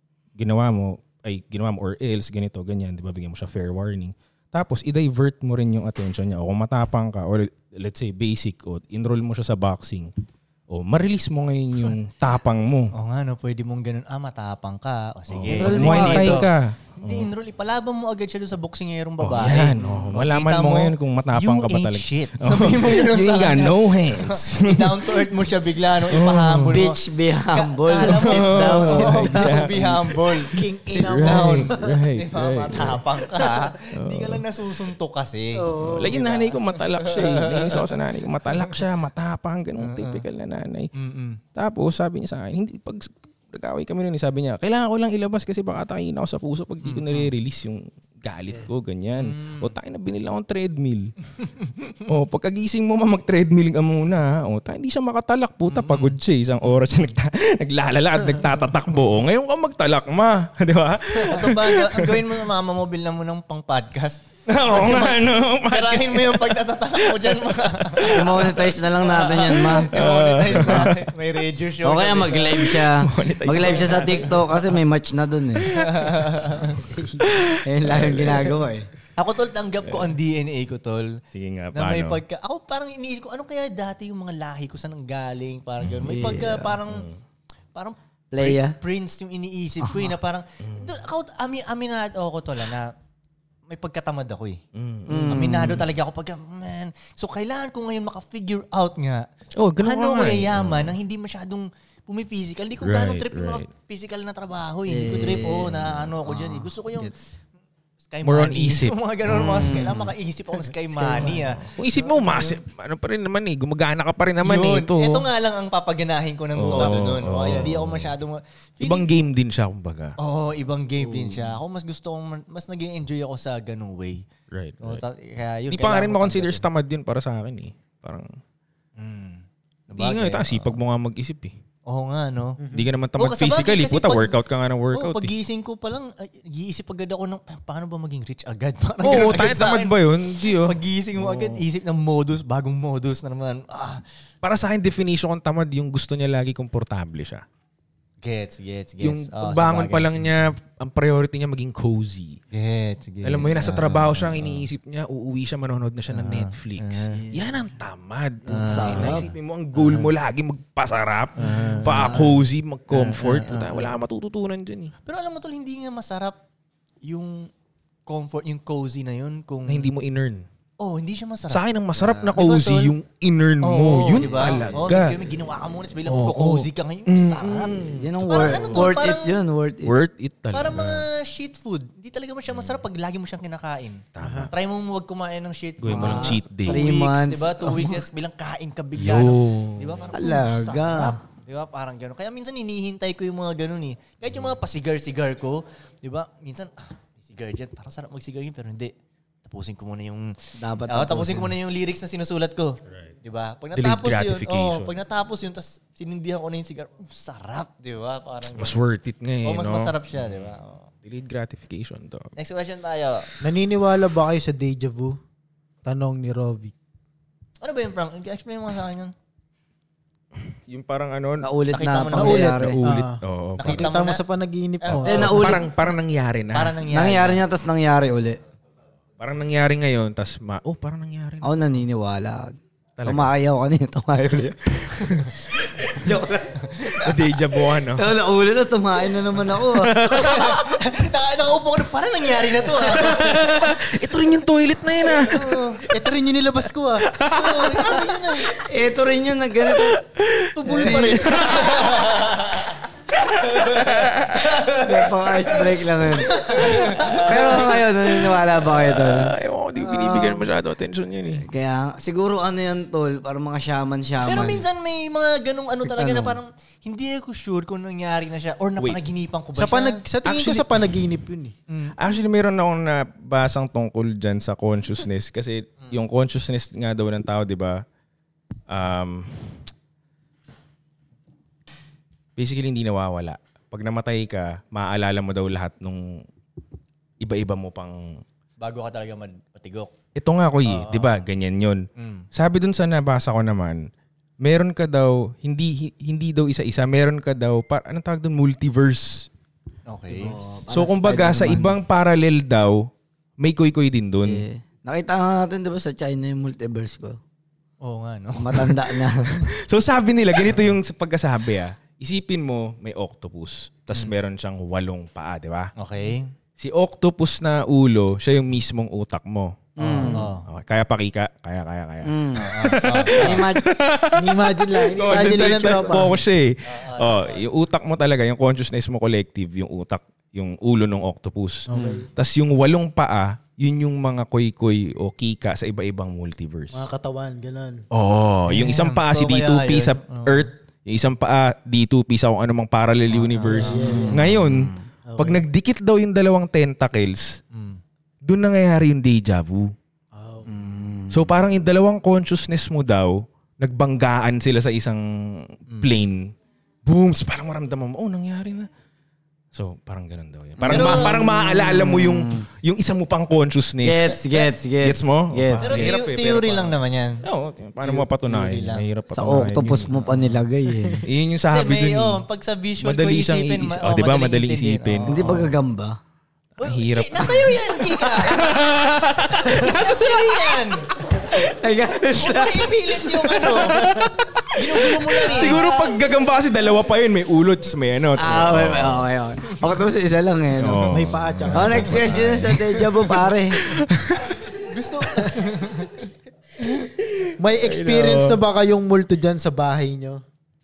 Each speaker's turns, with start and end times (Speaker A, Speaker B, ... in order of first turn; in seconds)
Speaker A: 0.4-10.1, 10.7-12.9, 15.3-17.3, 19.2-25.3, 26.1-26.8, 28.1-33.0, 33.9-34.4, 35.8-40.9, 41.5-51.1, 52.1-62.3, 64.5-68.4, 69.6-71.1, 72.6-74.6, 75.6-76.3, 77.2-78.5, 81.3-82.2, 85.8-86.3, 86.9-87.2, 90.6-91.0, 94.7-95.8, 99.6-101.0, 102.8-103.7, 108.2-109.9, 111.6-115.2, 116.6-118.2, 118.8-120.2, 124.5-125.0, 125.7-128.3, 130.0-131.5, 132.7-135.3, 139.0-141.6, 144.4-147.4, 149.0-152.4, 153.2-164.9, 169.7-170.4, 171.5-175.5, 176.0-178.9, 179.8-181.0, 184.1-184.5, 185.8-186.8, 189.0-190.0, 202.9-203.1, 203.8-204.9, 208.5-212.3, 220.7-221.5, 222.6-223.9, 224.9-226.8, 229.2-231.6, 233.0-233.3, 237.0-238.1, 239.7-240.6, 242.8-245.6, 247.0-248.1, 249.7-252.2, 253.2-254.6, 257.2-261.4, 270.2-270.8, 272.0-277.8, 278.7-279.6, 282.4-286.2, 287.2-288.2, 290.1-293.9, 294.4-299.3, 300.7-302.9, 303.4-304.4, 309.5-315.7, 316.6-336.8, 337.9-347.4, 348.2-349.7, 351.1-356.3, 356.8-358.7, 359.5-364.2, 364.8-370.0, 371.0-372.2, 372.8-375.5, 376.6-380.6, 383.5-389.1, 390.6-394.3, 397.2-398.4
Speaker B: 12.9-27.0, 27.5-37.9, 38.5-38.7, 39.8-40.2, 40.9-41.4, 46.8-47.3, 49.1-49.7, 55.7-56.2, 61.1-72.8, 73.6-74.3, 75.7-76.9, 79.2-81.2, 81.7-87.1, 87.7-92.9, 93.7-94.6, 95.2-99.3, 99.8-107.1, 108.1-112.6, 114.4-119.1, 120.2-124.2, 124.8-126.6, 129.0-130.7, 131.9-132.6, 133.2-134.3, 134.9-144.0, 148.2-150.2, 152.5-154.7, 156.1-157.2, 158.5-160.1, 161.4-162.3, 162.9-163.9, 165.0-166.4, 167.0-167.5, 168.1-169.9, 170.8-172.9, 173.6-179.4, 180.5-198.9, 199.4-200.3, 200.8-208.8, 209.4-210.9, 212.3-213.3, 217.6-219.1, 221.7-222.7, 223.6-224.2, 224.8-225.7, 226.5-227.4, 235.0-235.3, 236.6-237.1, 240.0-243.7, 245.2-245.8, 247.2-248.5, 250.6-252.7, 253.3-257.7, 264.2-270.0, 271.7-271.9, 288.6-289.9, 290.6-291.2, 291.9-292.2, 299.9-300.3, 307.8-308.8, 310.4-310.7, 315.8-316.3, 319.8-320.4, 322.4-323.4, 326.6-327.4, 338.5-340.5, 343.1-344.1, 347.5-347.8, 360.7-361.2, 364.1-364.5, 365.6-367.2, 367.8-368.8, 371.5-375.5, 376.6-378.7, 379.4-380.9, 382.1-383.9, 384.5-386.0, 392.1-392.6, 394.2-396.1
Speaker C: 15.5-16.5, 26.7-29.6, 68.1-69.9, 70.5-70.9, 71.8-75.7, 77.6-78.9, 86.0-86.8, 88.3-88.8, 89.8-90.1, 95.1-95.8, 104.9-107.1, 109.3-110.1, 110.9-111.5, 121.0-121.5, 158.5-159.3, 161.9-162.2, 177.9-179.9, 185.9-188.0, 190.1-191.2, 200.6-201.5, 221.4-222.8, 225.0-225.7, 226.8-228.4, 231.4-234.9, 235.9-236.6, 237.9-239.9, 248.7-250.0, 254.7-260.4, 261.4-264.6, 265.8-266.4, 300.1-301.8, 304.2-307.2, 308.4-309.4, 319.8-320.3, 322.0-322.6, 323.1-323.6, 343.8-344.8, 350.4-351.3, 360.6-362.4, 363.8-365.9, 369.1-371.0, 375.1-376.0, 381.1-383.9, 388.1-391.0, 391.5-393.6
Speaker D: 30.5-32.0, 32.7-33.7, 35.5-36.5, 132.6-132.9, 184.2-184.5, 213.4-215.2, 215.8-216.7, 222.1-225.5, 245.8-247.1, 250.6-251.3, 269.5-271.5, 324.1-326.2, 331.7-332.1, 336.7-337.8, 343.4-344.3, 345.1-345.4, 350.1-350.5, 390.9-392.2, 397.4-400.2